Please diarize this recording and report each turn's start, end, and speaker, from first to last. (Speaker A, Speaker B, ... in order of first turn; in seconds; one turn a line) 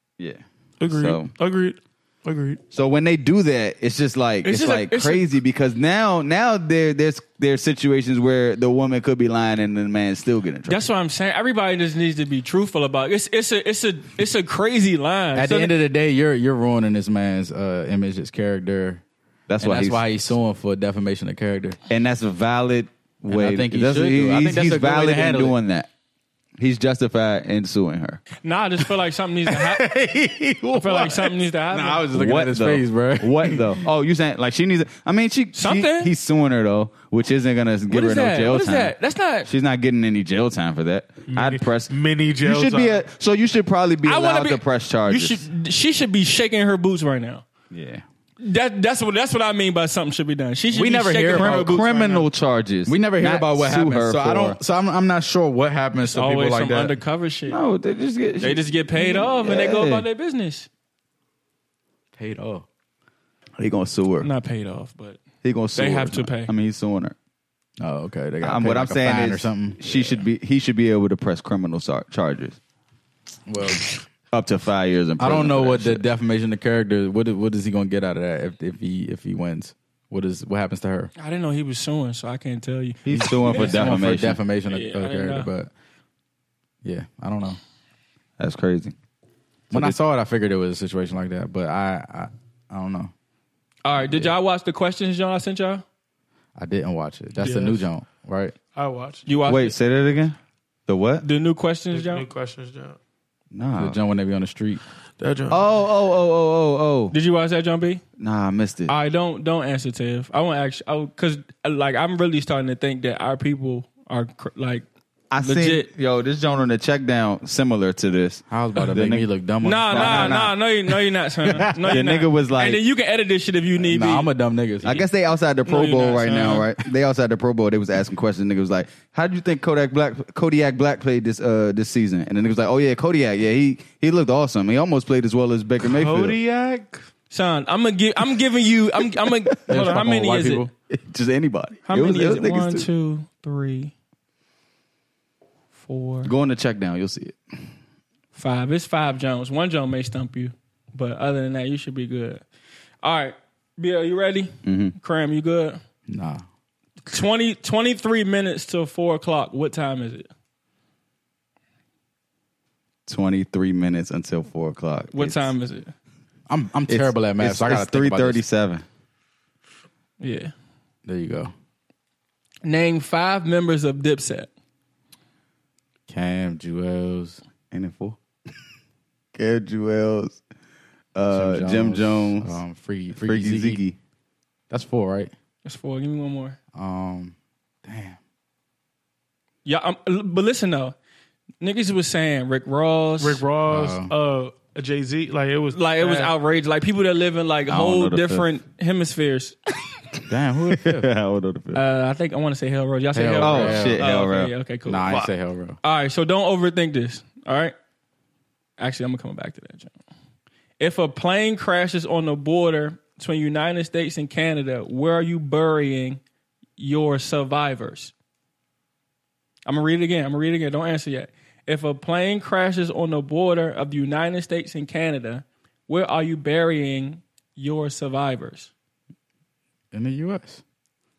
Speaker A: 0.2-1.3
Speaker B: 0.8-2.6
Speaker A: 2.7-10.9
Speaker C: 4.4-5.2
Speaker C: 10.7-15.7
Speaker D: 15.3-19.0
Speaker A: 19.5-20.4
Speaker D: 19.6-21.8
Speaker A: 21.9-25.9
Speaker D: 23.3-25.5
Speaker A: 26.6-28.2
Speaker C: 28.4-29.9
Speaker B: 29.7-31.3
Speaker C: 30.7-32.1
Speaker D: 31.7-33.8
Speaker A: 32.1-45.4
Speaker C: 35.5-36.1
Speaker C: 37.9-39.5
Speaker B: 41.3-43.0
Speaker C: 44.0-47.4
Speaker A: 47.7-48.0
Speaker C: 48.4-52.2
Speaker D: 50.7-51.8
Speaker A: 51.3-54.6
Speaker D: 52.9-57.0
Speaker C: 56.0-57.6
Speaker A: 57.5-60.0
Speaker C: 58.4-60.7
Speaker D: 62.1-62.6
Speaker A: 63.6-64.3
Speaker C: 64.2-65.2
Speaker A: 65.4-67.1
Speaker C: 65.8-66.5
Speaker D: 67.8-70.2
Speaker A: 68.4-72.6
Speaker D: 73.5-73.9
Speaker A: 74.3-76.0
Speaker D: 75.2-81.1
Speaker C: 81.2-83.9
Speaker A: 83.0-84.4
Speaker D: 83.1-85.7
Speaker C: 84.7-85.5
Speaker D: 86.8-87.6
Speaker A: 88.4-88.9
Speaker D: 89.7-93.1
Speaker C: 93.8-95.8
Speaker D: 94.0-94.3
Speaker D: 96.5-98.5
Speaker C: 97.4-97.8
Speaker B: 98.7-99.2
Speaker C: 99.2-99.8
Speaker A: 99.4-100.3
Speaker A: 100.9-101.2
Speaker C: 101.2-102.2
Speaker B: 101.9-103.0
Speaker A: 103.5-104.0
Speaker D: 103.8-104.8
Speaker B: 105.2-105.6
Speaker A: 105.5-107.1
Speaker C: 107.1-108.0
Speaker A: 108.2-108.9
Speaker C: 108.9-114.8
Speaker A: 115.3-119.3
Speaker C: 115.4-115.9
Speaker D: 118.5-120.5
Speaker C: 119.6-124.3
Speaker A: 119.9-120.5
Speaker A: 121.9-122.8
Speaker D: 123.8-125.0
Speaker A: 124.8-136.4
Speaker C: 125.7-126.7
Speaker B: 135.8-137.0
Speaker C: 137.3-140.7
Speaker D: 139.7-140.7
Speaker A: 140.9-142.9
Speaker C: 141.8-143.9
Speaker C: 145.8-146.3
Speaker A: 146.2-147.6
Speaker C: 148.3-152.4
Speaker C: 153.0-155.8
Speaker A: 154.6-154.9
Speaker D: 156.1-156.4
Speaker C: 157.1-160.3
Speaker A: 163.1-165.5
Speaker C: 165.1-165.9
Speaker D: 166.5-168.4
Speaker A: 166.9-168.8
Speaker C: 170.2-170.5
Speaker D: 171.0-171.5
Speaker C: 172.6-174.5
Speaker D: 176.1-177.4
Speaker A: 177.7-178.2
Speaker A: 179.3-180.4
Speaker A: 181.1-182.6
Speaker D: 181.3-183.8
Speaker A: 183.2-184.0
Speaker D: 184.7-185.3
Speaker C: 185.6-186.6
Speaker D: 186.7-188.2
Speaker C: 189.6-190.9
Speaker C: 191.6-193.4
Speaker B: 193.2-196.3
Speaker D: 193.7-194.1
Speaker C: 195.7-199.6
Speaker A: 197.7-198.5
Speaker D: 200.3-201.1
Speaker A: 200.7-201.8
Speaker C: 201.7-205.1
Speaker D: 203.1-204.0
Speaker A: 203.4-204.5
Speaker D: 204.8-205.8
Speaker C: 205.8-207.7
Speaker C: 208.8-209.9
Speaker C: 210.8-216.2
Speaker C: 216.8-218.1
Speaker C: 219.7-228.7
Speaker D: 229.9-230.6